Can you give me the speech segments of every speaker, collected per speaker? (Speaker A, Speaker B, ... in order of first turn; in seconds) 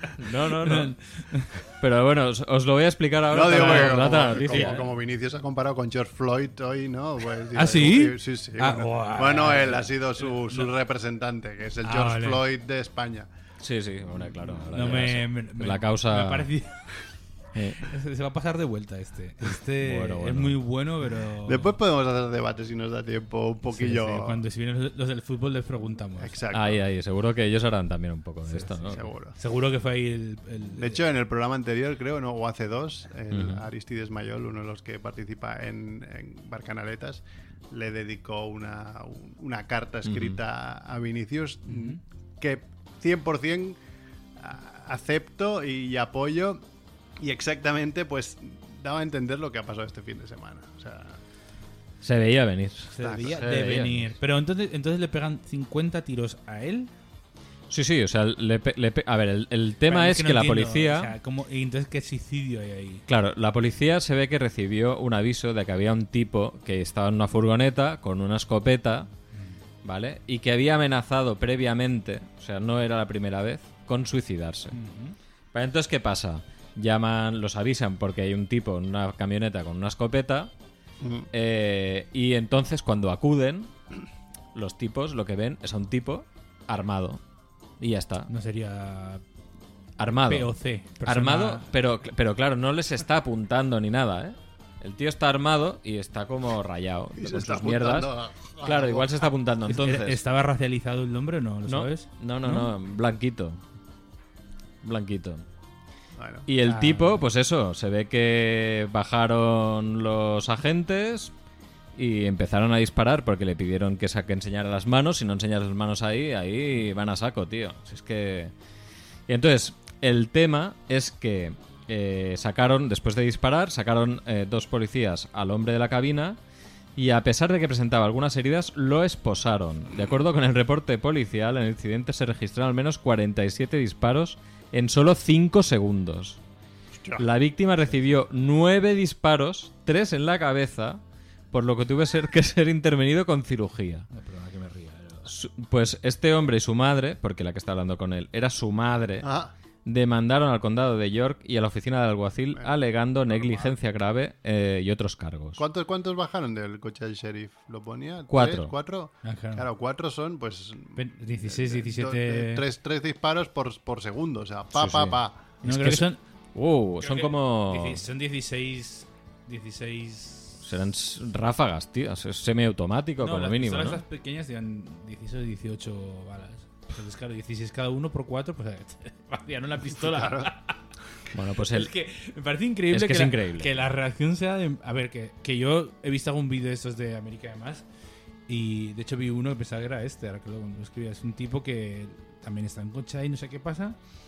Speaker A: 0.1-1.0, 1.8-4.9, 13.6-16.5, 17.5-17.9, 19.8-20.6, 26.5-29.1, 33.3-33.6, 40.0-40.4, 52.0-54.1, 57.7-61.1, 63.1-69.1, 69.8-74.8, 75.5-80.5, 81.3-83.7, 84.5-87.2, 87.8-88.3, 90.0-98.1, 98.6-100.2, 101.7-103.6, 104.8-105.5, 106.5-111.3, 112.0-118.5, 119.3-126.4, 127.0-136.4, 137.2-141.0, 141.5-144.1, 145.3-149.3, 149.8-155.6, 158.3-158.7, 164.8-168.0, 170.6-174.0, 181.3-181.9, 182.9-183.7
Speaker B: 0.5-1.5, 3.5-4.8, 7.5-10.7, 11.8-12.5, 14.7-17.0, 17.8-21.7, 23.7-26.4, 29.4-31.0, 41.7-42.0, 52.9-56.9, 59.9-63.0, 74.7-75.2, 88.3-89.2, 90.3-91.7, 99.7-102.7, 106.6-107.2, 144.1-145.3, 159.2-159.7, 161.0-162.6, 165.6-166.2, 167.0-170.6, 173.2-180.8, 181.7-187.8, 188.5-194.0
Speaker C: 3.3-13.3, 21.4-24.4, 26.2-26.8, 28.9-29.4, 30.8-43.8, 44.4-46.6, 47.2-51.2, 53.0-53.4, 81.0-81.3, 97.2-99.3, 106.2-106.5, 137.0-137.3, 149.2-149.5, 153.3-153.7, 155.6-165.4, 180.1-180.5